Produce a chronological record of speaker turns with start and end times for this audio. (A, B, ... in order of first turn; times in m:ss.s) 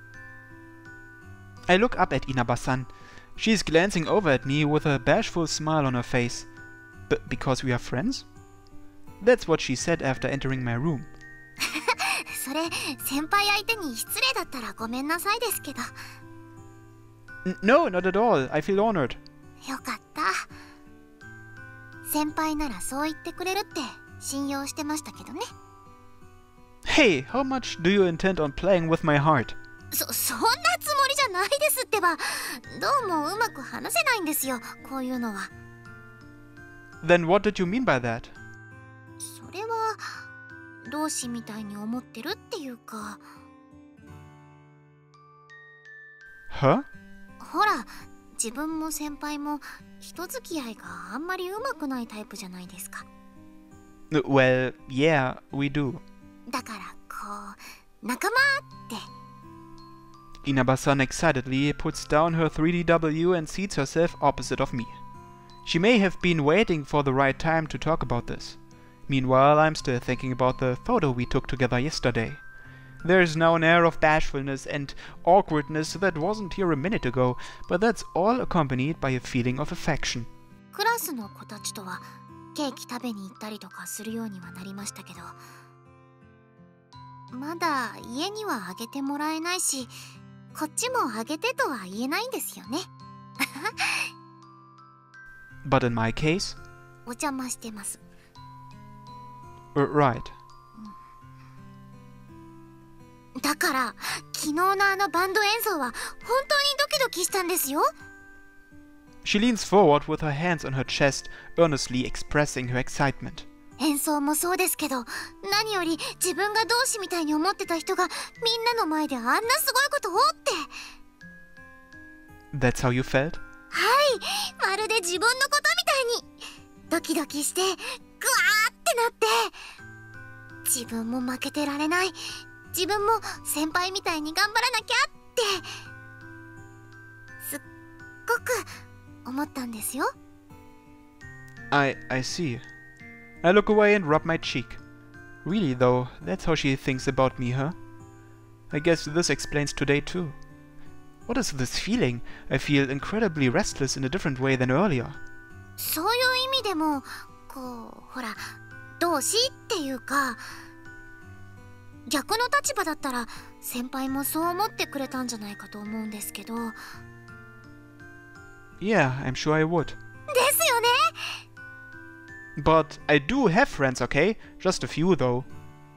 0:01.7-0:06.5 A
0:07.1-0:08.3 A
0:09.2-0:11.1 A
0:11.6-0:16.0 B
0:17.4-0:19.2 A
0:19.6-0:20.5 B
0:22.1-0:25.5 B
0:26.9-0:29.6 A
0:29.9-0:35.5 B
0:37.0-0:38.3 A
0:39.2-0:40.3 B
0:40.8-0:43.2 B
0:46.5-0:46.9 A
0:47.4-0:53.1 B
0:54.1-0:56.0 A
0:56.5-0:59.0 B
1:00.4-1:05.0 A
1:05.6-1:12.4 A
1:13.0-1:20.3 A
1:20.7-1:25.4 B
1:27.3-1:29.9 B
1:30.5-1:32.9 B
1:33.4-1:34.1 B
1:35.6-1:36.6 A
1:37.1-1:38.0 B
1:39.8-1:40.3 A
1:43.4-1:47.9 B
1:49.2-1:53.5 A
1:53.8-2:00.7 B
2:02.5-2:03.4 A
2:03.7-2:06.3 B
2:06.9-2:09.6 B
2:10.7-2:12.2 B
2:12.7-2:15.7 B
2:18.3-2:18.7 B
2:19.3-2:20.1 B
2:21.7-2:22.6 A
2:23.4-2:24.8 A
2:25.4-2:27.8 A
2:28.7-2:30.4 A
2:31.3-2:35.2 A
2:35.8-2:40.6 B
2:42.1-2:46.8 B
2:48.8-2:50.0 A
2:50.3-2:51.4 B
2:52.6-2:55.5 A